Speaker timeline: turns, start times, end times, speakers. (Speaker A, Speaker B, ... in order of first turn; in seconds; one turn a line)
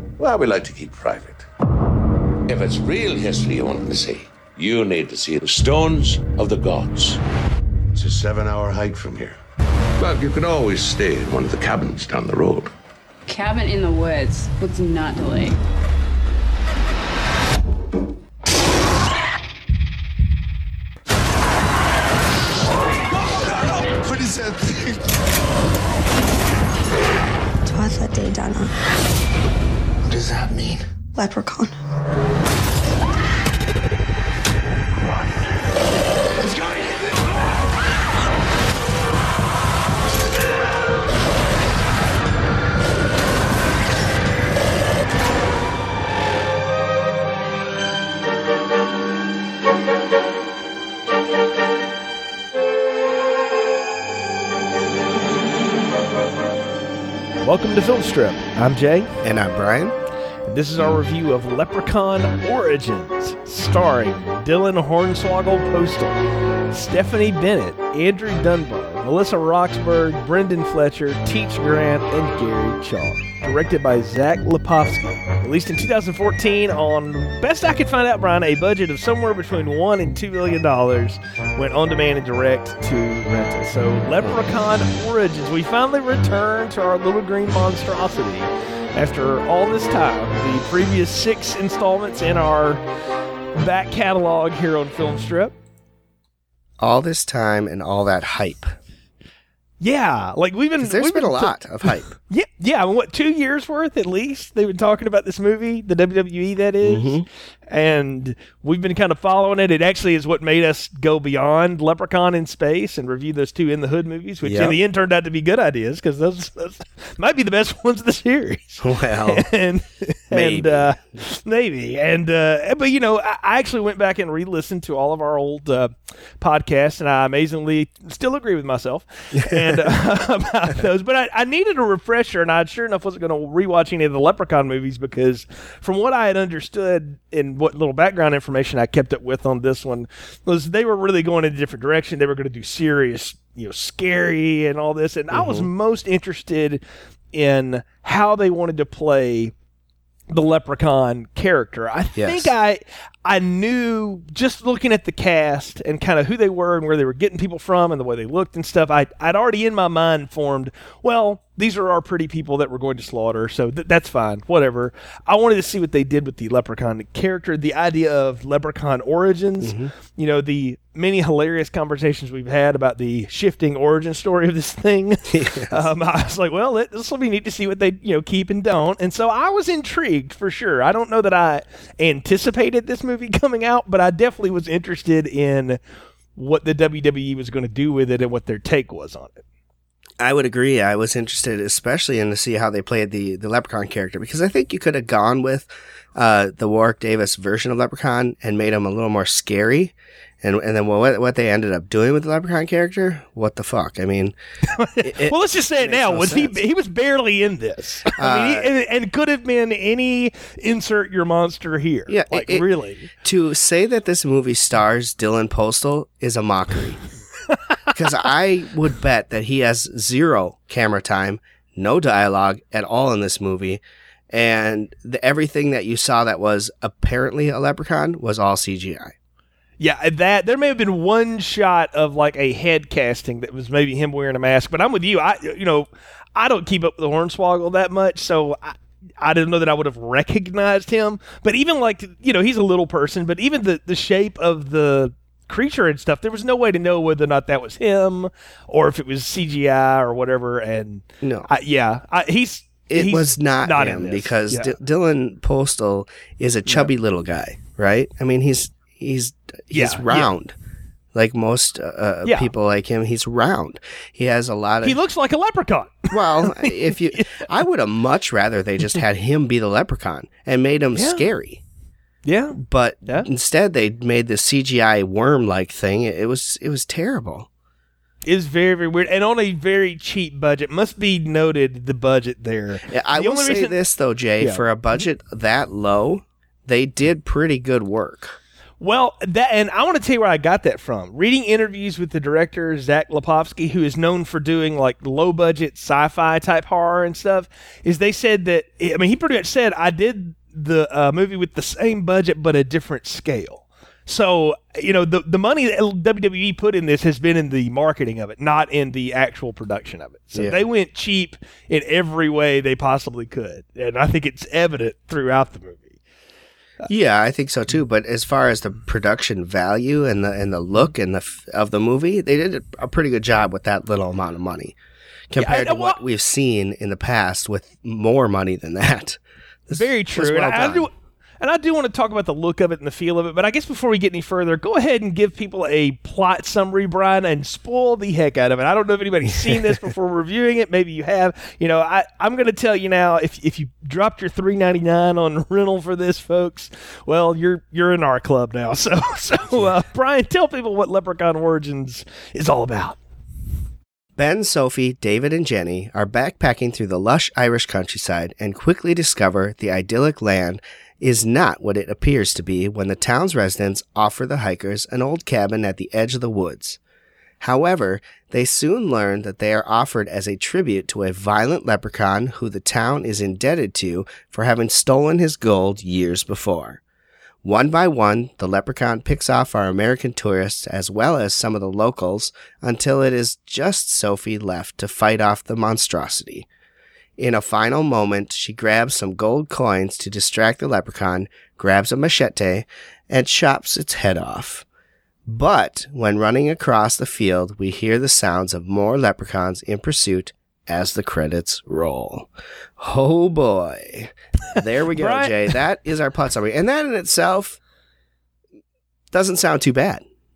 Speaker A: 0.2-1.5
Speaker A: 2.5-7.2
Speaker A: 7.9-9.4
Speaker A: 10.0-12.7
Speaker B: 13.2-15.6
Speaker A: 23.3-25.0
Speaker C: 27.6-28.7
Speaker C: 30.1-31.8
Speaker D: 57.4-59.1
Speaker E: 59.2-60.0
Speaker D: 60.5-66.2
Speaker D: 66.7-92.8
Speaker D: 93.6-95.5
Speaker E: 96.8-98.7
Speaker D: 99.8-146.8
Speaker E: 100.8-102.1
Speaker E: 106.8-107.2
Speaker E: 114.4-114.8
Speaker E: 118.8-119.4
Speaker E: 120.3-121.0
Speaker E: 129.3-129.8
Speaker E: 145.3-145.7
Speaker D: 147.3-149.5
Speaker D: 150.3-185.8
Speaker E: 152.2-152.5
Speaker E: 169.6-169.9
Speaker E: 175.3-175.8
Speaker D: 186.3-189.4
Speaker E: 190.2-204.3
Speaker D: 204.7-213.1
Speaker E: 205.0-206.6
Speaker E: 208.1-208.7
Speaker E: 212.1-212.6
Speaker E: 213.2-217.0
Speaker E: 217.9-229.1
Speaker D: 229.8-254.8
Speaker E: 251.2-251.5
Speaker E: 252.9-260.5
Speaker D: 259.7-260.3
Speaker E: 261.1-265.0
Speaker D: 264.8-267.5
Speaker E: 266.1-271.6
Speaker D: 270.9-271.2
Speaker D: 272.2-273.3
Speaker E: 272.5-277.5
Speaker D: 278.2-283.8
Speaker E: 282.9-288.4
Speaker D: 288.8-315.9
Speaker E: 310.3-310.6
Speaker E: 316.8-324.8
Speaker E: 325.3-330.9
Speaker D: 325.4-326.0
Speaker D: 329.7-353.0
Speaker E: 354.2-366.8
Speaker E: 367.4-376.8
Speaker E: 377.4-386.5
Speaker E: 387.2-394.6
Speaker E: 395.2-407.6
Speaker D: 404.5-405.5
Speaker E: 409.1-410.0